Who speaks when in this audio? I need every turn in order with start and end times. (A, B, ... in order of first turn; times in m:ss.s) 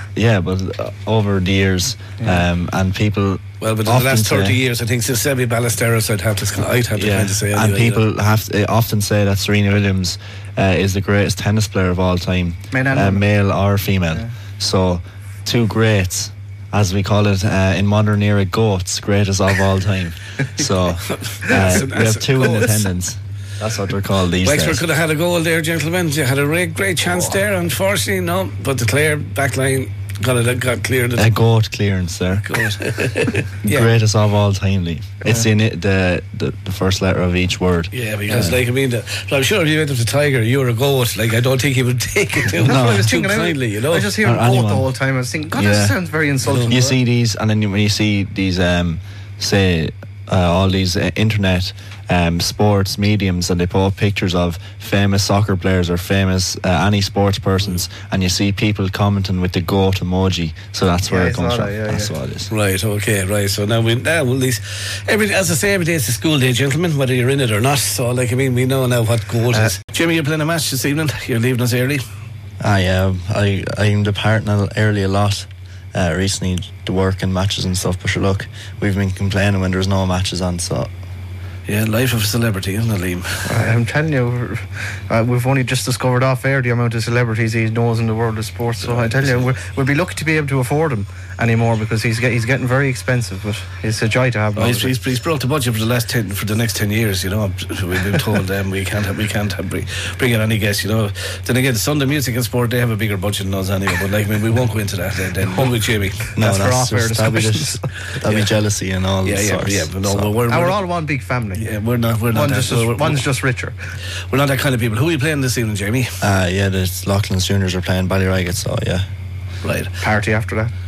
0:00.2-0:04.6 A
0:03.6-0:08.0 B
0:07.0-0:24.8 A
0:12.7-0:13.3 C
0:21.1-0:22.9 B
0:24.4-0:31.4 B
0:31.2-0:32.5 A
0:32.5-0:33.9 B
0:33.6-0:38.6 A
0:37.9-0:44.2 B
0:42.6-0:47.0 C
0:42.6-0:43.1 A
0:44.2-0:44.9 A
0:45.5-0:46.0 A
0:46.4-0:46.8 B
0:46.7-1:02.5 A
1:01.1-1:02.1 C
1:02.5-1:12.0 B
1:12.6-1:20.9 A
1:21.7-1:23.5 B
1:23.5-1:34.9 C
1:28.8-1:29.5 B
1:34.6-1:46.2 B
1:46.4-1:47.9 C
1:46.4-1:50.3 A
1:48.2-1:48.5 B
1:49.2-1:50.8 B
1:50.5-1:51.6 C
1:51.5-1:53.2 B
1:52.3-1:53.8 C
1:54.3-1:56.2 B
1:56.2-1:59.1 A
1:59.6-1:59.9 B
2:00.0-2:00.7 C